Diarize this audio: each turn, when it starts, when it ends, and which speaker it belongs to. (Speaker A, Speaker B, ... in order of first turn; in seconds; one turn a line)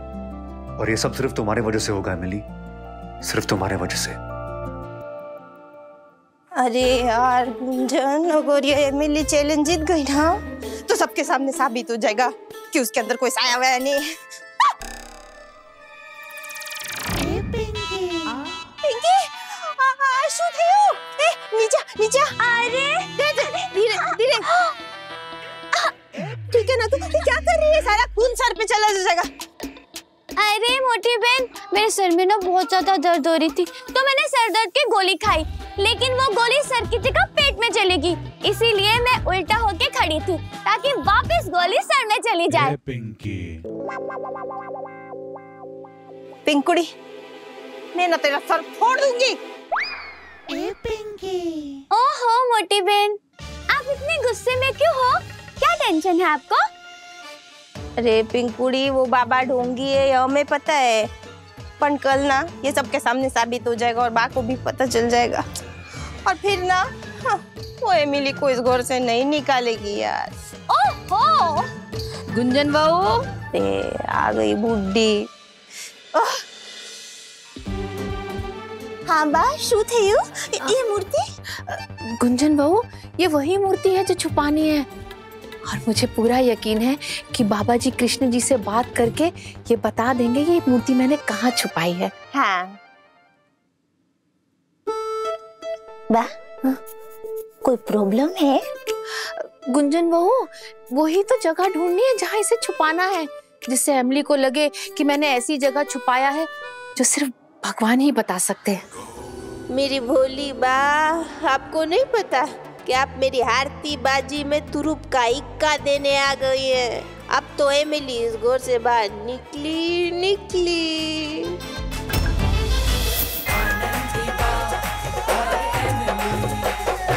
Speaker A: 0.8-2.4
Speaker A: 3.2-4.2
Speaker B: 6.5-14.1
Speaker B: 18.8-22.3
Speaker C: 22.4-23.1
Speaker B: 23.2-24.4
Speaker B: 26.5-29.3
Speaker C: 30.4-42.8
Speaker B: 46.5-46.9
Speaker B: 47.9-49.4
Speaker C: 51.9-53.2
Speaker C: 53.7-56.6
Speaker B: 58.0-61.1
Speaker B: 61.8-65.4
Speaker B: 66.2-70.3
Speaker C: 70.7-71.7
Speaker D: 72.3-73.2
Speaker B: 73.5-75.3
Speaker B: 76.2-76.4
Speaker B: 79.1-81.2
Speaker D: 81.7-84.9
Speaker D: 85.7-92.1
Speaker B: 92.3-92.8
Speaker B: 96.1-96.8
Speaker B: 97.6-98.6
Speaker D: 99.2-108.8
Speaker B: 109.7-121.6